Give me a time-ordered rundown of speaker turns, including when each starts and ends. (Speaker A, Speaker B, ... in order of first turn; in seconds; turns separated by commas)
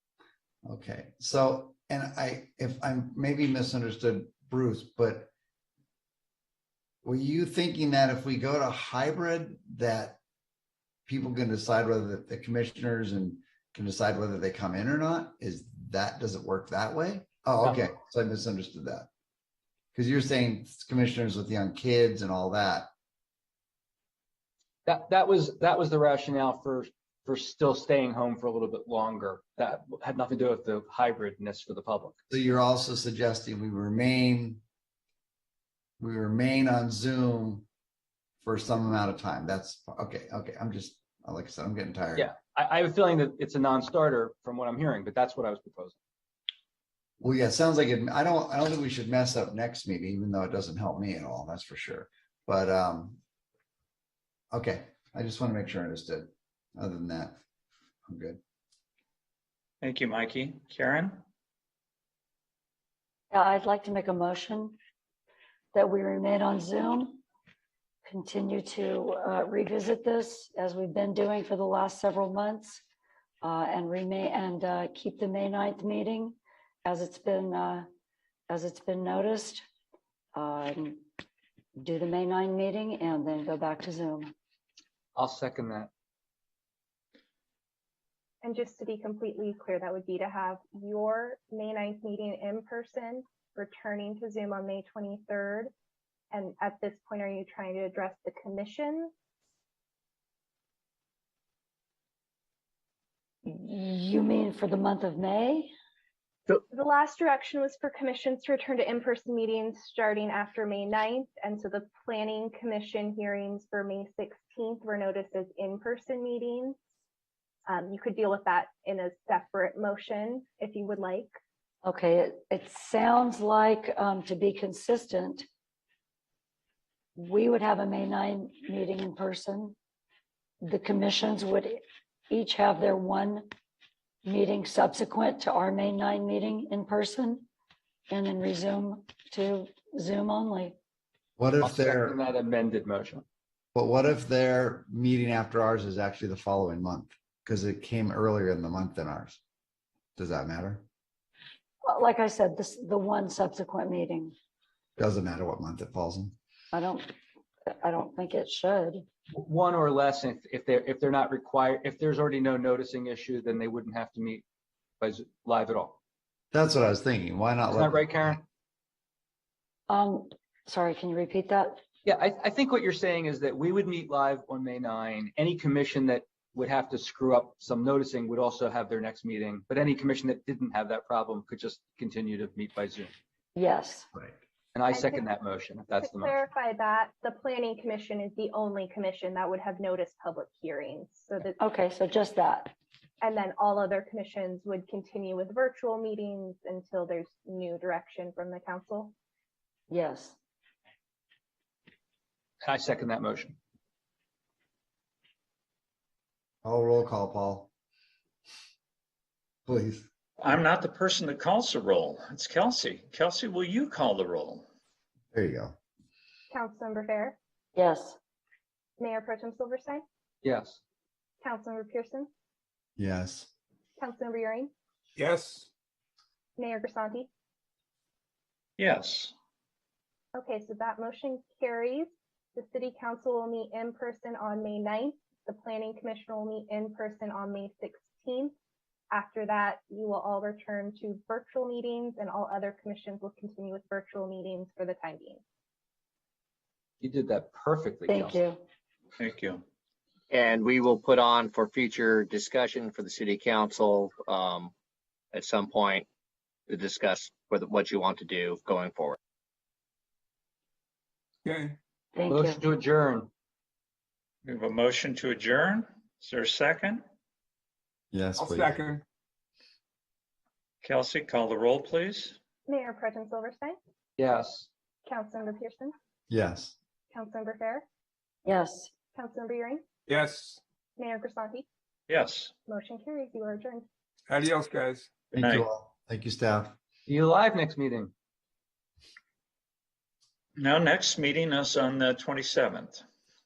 Speaker A: 0.7-5.3, Speaker A: 7.0-10.2, Speaker A: 11.1-19.1, Speaker A: 19.9-22.9, Speaker B: 24.9-32.2, Speaker A: 32.3-34.6, Speaker A: 36.0-37.7, Speaker A: 38.4-42.3, Speaker B: 42.1-46.0, Speaker A: 47.2-53.2, Speaker A: 54.5-57.4, Speaker A: 58.1-58.4, Speaker C: 59.8-61.2, Speaker D: 63.3-64.8, Speaker D: 65.7-67.2, Speaker D: 68.0-72.8, Speaker D: 73.4-77.9, Speaker D: 78.5-79.6, Speaker D: 80.3-81.0, Speaker D: 81.8-84.3, Speaker B: 85.2-85.9, Speaker E: 88.4-95.7, Speaker E: 96.3-99.1, Speaker D: 103.5-105.7, Speaker E: 106.7-116.8, Speaker E: 117.7-121.3, Speaker D: 121.8-125.5, Speaker D: 127.2-129.8, Speaker D: 130.6-133.5, Speaker D: 134.2-137.5, Speaker D: 138.1-140.8, Speaker A: 141.4-142.2, Speaker B: 141.6-143.2, Speaker A: 143.7-149.4, Speaker A: 150.2-150.8, Speaker D: 151.8-154.3, Speaker A: 155.0-156.3, Speaker D: 156.7-157.1, Speaker D: 157.7-159.1, Speaker B: 159.3-164.4, Speaker B: 165.0-166.0, Speaker A: 166.5-168.4, Speaker B: 167.7-168.4, Speaker D: 169.9-171.8, Speaker B: 172.0-183.1, Speaker D: 183.6-184.1, Speaker B: 184.7-186.4, Speaker E: 184.9-185.3, Speaker E: 186.0-191.6, Speaker D: 191.6-192.7, Speaker E: 193.2-199.1, Speaker D: 199.9-200.4, Speaker B: 202.6-203.6, Speaker A: 206.6-207.7, Speaker A: 209.7-210.1, Speaker C: 210.4-214.7, Speaker A: 215.3-215.8, Speaker E: 216.5-217.4, Speaker D: 217.8-218.2, Speaker E: 219.0-220.0, Speaker B: 220.4-220.8, Speaker E: 221.4-222.3, Speaker A: 223.0-223.5, Speaker E: 224.0-224.7, Speaker F: 225.2-225.7, Speaker E: 226.6-227.3, Speaker C: 228.8-229.3, Speaker E: 230.3-238.5, Speaker E: 239.1-245.4, Speaker B: 247.0-248.4, Speaker D: 248.1-248.6, Speaker C: 249.2-249.6, Speaker G: 250.3-254.7, Speaker G: 255.3-256.1, Speaker G: 256.7-259.2, Speaker F: 261.4-261.8, Speaker D: 262.1-262.6, Speaker B: 262.3-263.3, Speaker C: 264.4-267.0, Speaker A: 268.1-268.8, Speaker F: 268.4-269.0, Speaker C: 270.8-272.4, Speaker E: 272.7-273.8, Speaker B: 274.2-274.7, Speaker E: 275.1-275.9, Speaker A: 276.3-276.8, Speaker E: 277.1-277.9, Speaker D: 278.5-278.9, Speaker E: 279.1-279.8, Speaker F: 280.1-280.6, Speaker E: 281.0-281.7, Speaker C: 282.1-282.5, Speaker E: 282.7-283.9, Speaker F: 284.3-285.1, Speaker A: 285.3-286.8, Speaker C: 285.4-285.7, Speaker B: 287.1-288.1, Speaker C: 290.6-293.0